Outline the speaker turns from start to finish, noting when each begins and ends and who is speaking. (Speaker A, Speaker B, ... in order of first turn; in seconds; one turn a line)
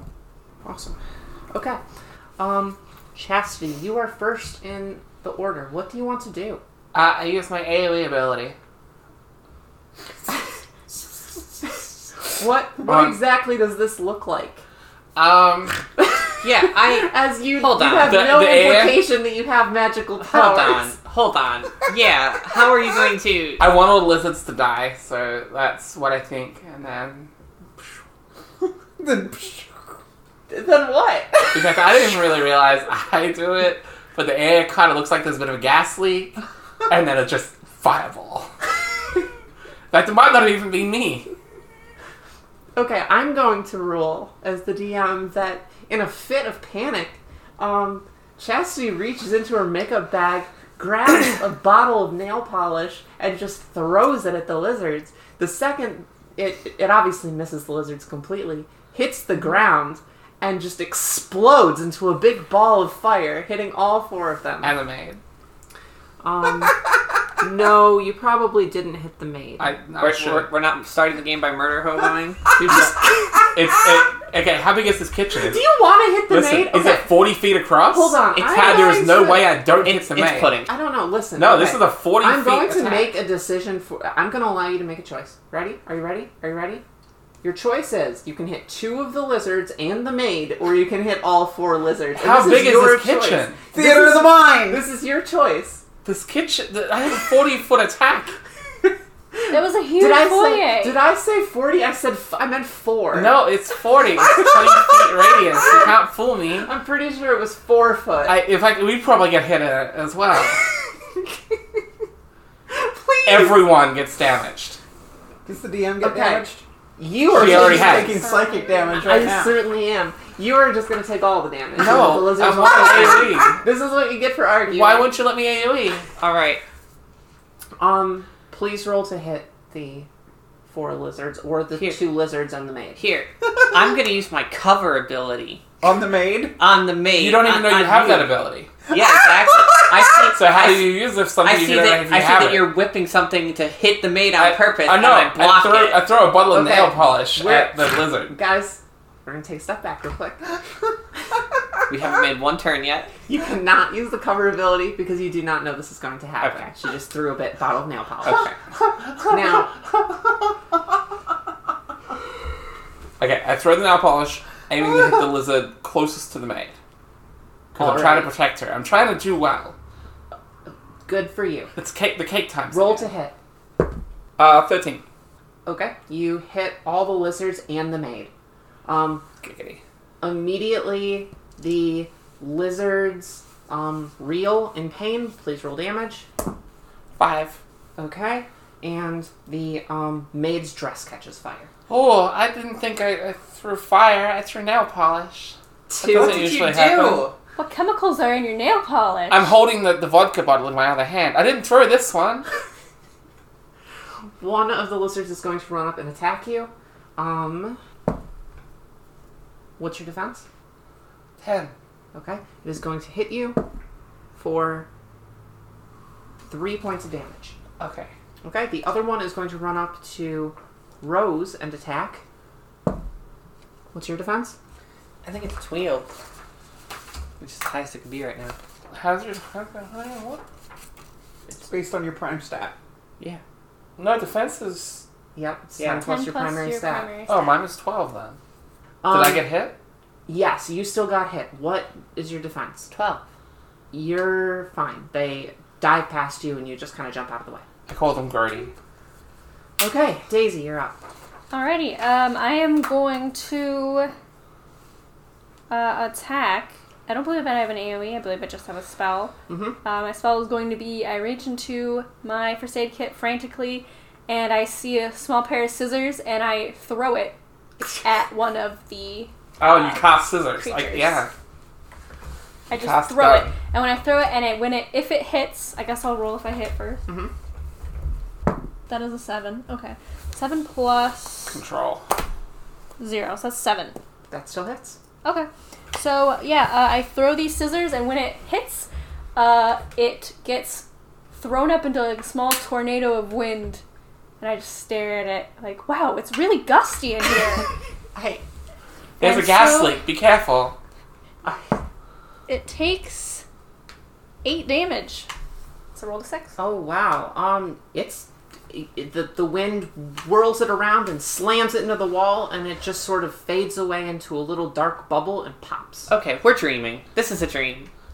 Speaker A: 1.5-1.8
Speaker A: 2.4-6.6
Speaker B: 6.9-8.6
Speaker A: 12.3-14.6
Speaker B: 12.8-13.2
Speaker B: 15.1-15.8
Speaker A: 16.0-20.9
Speaker C: 16.4-18.2
Speaker B: 18.0-19.1
Speaker C: 20.2-23.6
Speaker B: 23.6-27.3
Speaker D: 28.6-29.9
Speaker A: 30.5-31.9
Speaker B: 31.5-38.5
Speaker B: 39.9-41.3
Speaker A: 42.7-64.7
Speaker B: 64.6-65.2
Speaker A: 66.2-66.8
Speaker A: 67.4-69.7
Speaker B: 69.6-70.5
Speaker C: 70.0-72.9
Speaker A: 72.6-72.9
Speaker B: 73.5-75.6
Speaker A: 75.5-77.2
Speaker B: 76.3-80.5
Speaker A: 77.9-79.6
Speaker C: 78.4-78.7
Speaker C: 79.8-80.7
Speaker A: 80.7-86.8
Speaker B: 81.4-83.1
Speaker A: 87.4-95.8
Speaker B: 92.2-93.6
Speaker D: 93.7-94.8
Speaker B: 96.0-98.4
Speaker A: 99.4-103.4
Speaker E: 99.5-101.0
Speaker B: 103.1-106.7
Speaker A: 106.6-108.4
Speaker B: 108.2-110.6
Speaker A: 112.7-113.7
Speaker B: 113.2-114.8
Speaker D: 115.4-116.6
Speaker A: 116.0-118.3
Speaker D: 117.3-119.6
Speaker B: 117.3-118.2
Speaker E: 118.2-119.0
Speaker A: 118.9-125.1
Speaker B: 121.8-123.6
Speaker B: 124.7-126.1
Speaker C: 126.2-126.6
Speaker A: 127.8-130.1
Speaker A: 130.7-133.0
Speaker C: 131.8-132.0
Speaker C: 133.0-135.6
Speaker D: 135.8-136.6
Speaker C: 136.6-138.3
Speaker B: 137.1-138.7
Speaker C: 138.9-146.1
Speaker D: 138.9-140.1
Speaker B: 140.3-142.7
Speaker B: 144.4-148.4
Speaker A: 146.4-150.6
Speaker C: 151.9-153.1
Speaker A: 153.3-158.5
Speaker C: 158.3-158.5
Speaker A: 159.2-159.7
Speaker B: 163.2-166.7
Speaker A: 167.7-168.3
Speaker B: 167.7-169.7
Speaker A: 171.1-171.7
Speaker B: 171.7-173.1
Speaker A: 172.7-173.3
Speaker B: 174.4-175.0
Speaker A: 175.7-178.3
Speaker A: 178.8-179.2
Speaker B: 179.4-179.8
Speaker A: 180.2-186.3
Speaker B: 187.2-187.6
Speaker A: 188.0-191.7
Speaker B: 191.9-197.3
Speaker A: 195.9-196.8
Speaker D: 196.1-197.3
Speaker E: 197.6-199.5
Speaker B: 199.3-202.4
Speaker A: 204.4-207.8
Speaker A: 209.8-210.4
Speaker B: 211.4-211.7
Speaker A: 212.1-213.6
Speaker A: 214.3-214.9
Speaker A: 216.5-217.6
Speaker B: 217.8-218.1
Speaker A: 218.4-222.2
Speaker A: 223.9-224.6
Speaker C: 225.2-226.1
Speaker C: 227.4-228.6
Speaker B: 228.9-230.4
Speaker D: 231.6-232.7
Speaker B: 234.0-235.1
Speaker A: 235.3-237.1
Speaker C: 235.8-236.1
Speaker E: 236.0-237.6
Speaker B: 237.3-238.4
Speaker A: 239.0-239.5
Speaker B: 239.1-239.7
Speaker A: 240.3-242.9
Speaker C: 242.9-243.2
Speaker A: 243.9-247.6
Speaker B: 247.9-248.7
Speaker A: 249.8-251.0
Speaker E: 251.5-254.1
Speaker E: 255.7-271.2
Speaker A: 259.5-259.8
Speaker B: 269.6-271.3
Speaker E: 272.7-277.0
Speaker B: 272.7-273.6
Speaker A: 277.1-277.3
Speaker E: 278.9-281.6
Speaker B: 281.5-282.1
Speaker E: 283.0-283.9
Speaker A: 284.3-285.0
Speaker E: 285.2-293.8
Speaker E: 294.4-297.7
Speaker E: 299.2-300.0
Speaker B: 299.2-300.8
Speaker E: 302.5-303.4
Speaker E: 304.4-305.3
Speaker E: 305.9-306.6
Speaker A: 306.6-316.1
Speaker C: 316.1-317.9